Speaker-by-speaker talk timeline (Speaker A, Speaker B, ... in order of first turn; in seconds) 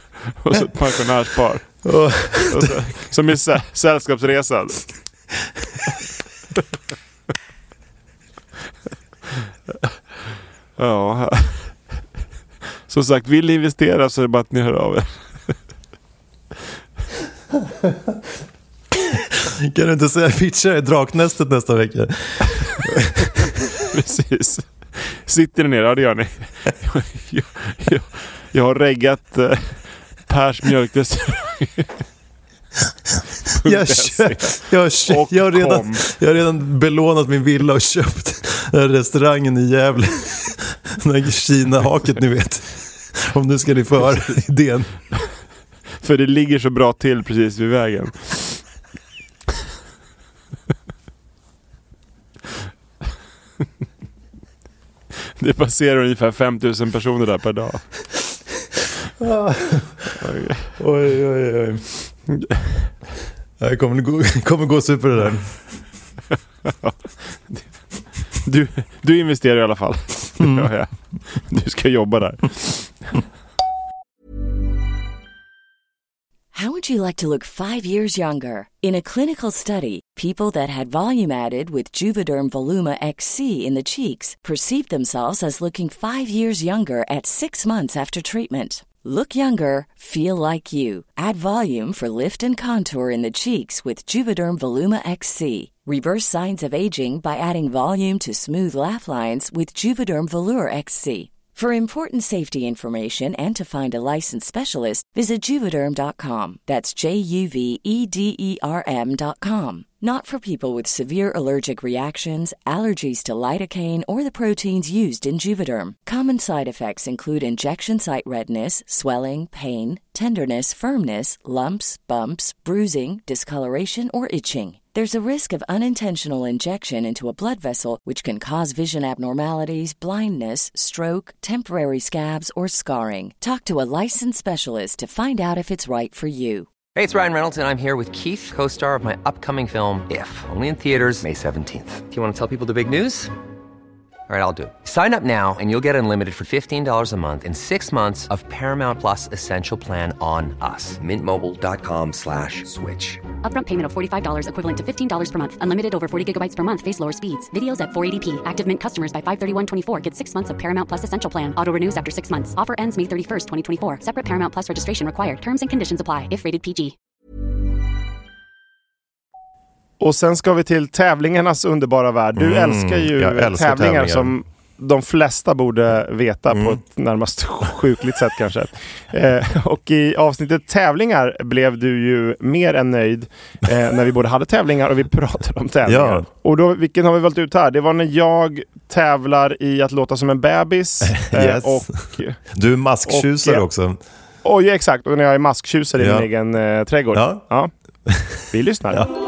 Speaker A: 0.4-4.9, 10.8-11.8, 12.9-15.5, 23.8-31.9, 33.5-36.0, 46.0-48.6, 55.4-57.8, 60.2-60.8, 66.7-67.7, 68.3-73.0, 170.0-192.4, 193.1-193.7, 194.4-197.7, 198.5-199.0
Speaker B: 1.9-2.8, 19.7-22.3, 33.6-44.9, 59.2-59.9, 60.8-61.8, 63.6-65.5, 70.4-70.7, 172.4-174.3, 176.5-176.8, 185.9-186.3, 191.0-194.0, 196.0-196.3, 197.1-197.4, 198.1-198.4
Speaker C: 76.5-136.7
Speaker D: 136.9-143.3, 144.3-153.2
Speaker E: 153.4-166.9